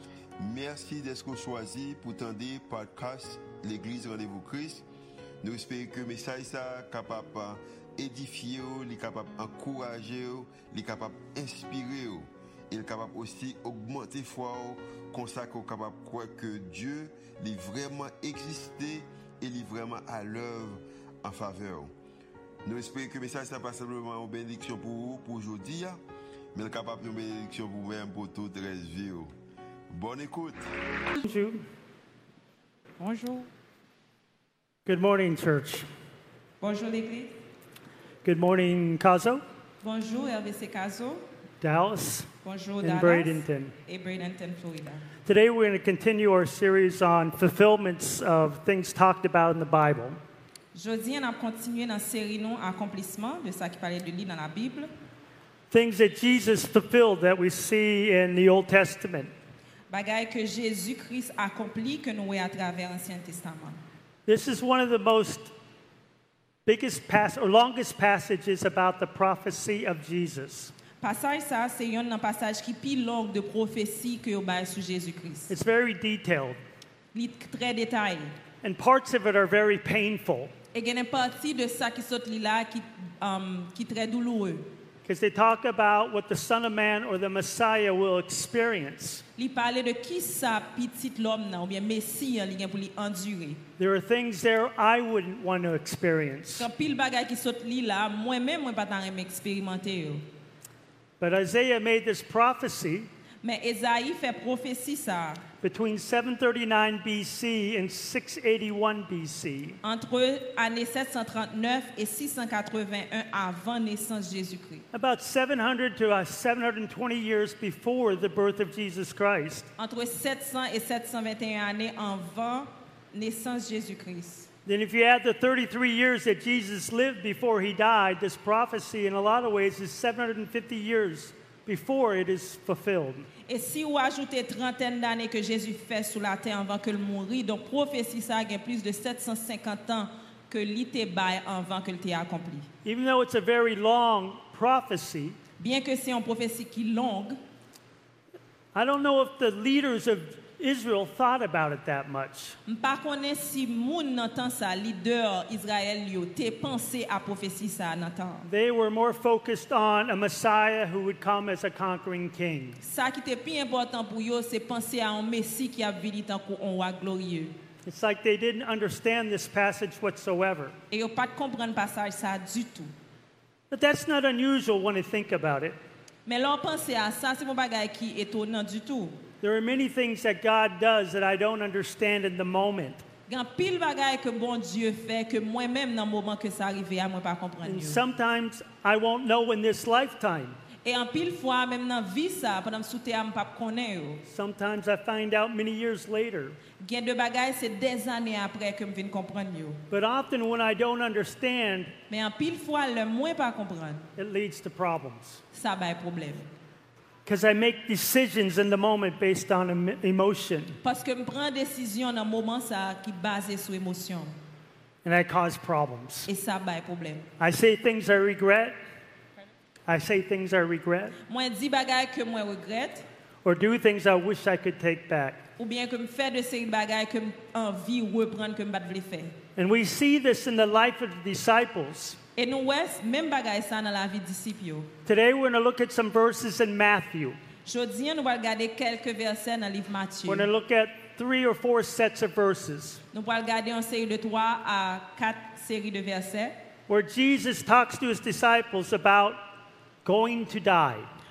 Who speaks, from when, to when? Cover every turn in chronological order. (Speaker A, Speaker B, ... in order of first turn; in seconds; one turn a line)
Speaker A: 0.4-4.8
Speaker A: 5.4-21.9
Speaker A: 22.6-26.0
Speaker A: 26.5-29.3
Speaker A: 29.9-30.7
Speaker B: 31.2-31.6
Speaker C: 33.0-33.5
Speaker B: 34.9-35.9
Speaker C: 36.6-37.4
Speaker B: 38.2-39.4
Speaker C: 39.8-41.2
Speaker B: 41.6-42.3
Speaker C: 42.4-45.1
Speaker B: 42.8-43.7
Speaker B: 45.2-50.2
Speaker C: 50.7-54.9
Speaker B: 55.7-59.3
Speaker C: 59.9-63.8
Speaker B: 64.2-65.5
Speaker B: 66.7-70.7
Speaker C: 71.0-75.5
Speaker B: 75.5-76.6
Speaker C: 77.1-78.3
Speaker B: 78.6-80.5
Speaker C: 80.7-84.7
Speaker B: 85.0-89.2
Speaker C: 89.3-93.6
Speaker B: 93.8-96.7
Speaker C: 96.5-100.2
Speaker B: 101.2-103.1
Speaker C: 103.4-105.4
Speaker B: 105.6-109.8
Speaker C: 109.8-114.8
Speaker B: 114.9-119.7
Speaker C: 119.8-124.5
Speaker B: 124.7-133.3
Speaker C: 133.5-142.7
Speaker B: 142.8-145.4
Speaker C: 145.6-147.4
Speaker B: 148.7-152.6
Speaker C: 152.7-158.5
Speaker B: 158.4-162.8
Speaker C: 162.8-167.6
Speaker B: 167.8-170.7
Speaker C: 170.9-172.9
Speaker B: 173.7-175.8
Speaker C: 176.2-179.2
Speaker B: 179.4-183.0
Speaker C: 183.3-188.0
Speaker B: 187.6-190.6
Speaker C: 190.8-194.2
Speaker B: 194.2-196.6
Speaker C: 196.8-199.8
Speaker B: 199.9-201.9
Speaker C: 202.1-204.1
Speaker B: 204.2-205.4
Speaker C: 205.5-206.5
Speaker B: 207.2-210.8
Speaker C: 210.8-214.3
Speaker B: 215.0-216.3
Speaker C: 216.3-217.3
Speaker B: 217.4-218.8
Speaker B: 219.9-221.2
Speaker C: 221.3-223.1
Speaker B: 223.4-225.4
Speaker C: 225.6-229.3
Speaker B: 229.6-232.2
Speaker C: 232.3-234.9
Speaker B: 235.1-237.4
Speaker C: 237.6-240.5
Speaker B: 240.3-243.0
Speaker C: 243.1-246.6
Speaker B: 246.9-249.4
Speaker B: 250.0-251.1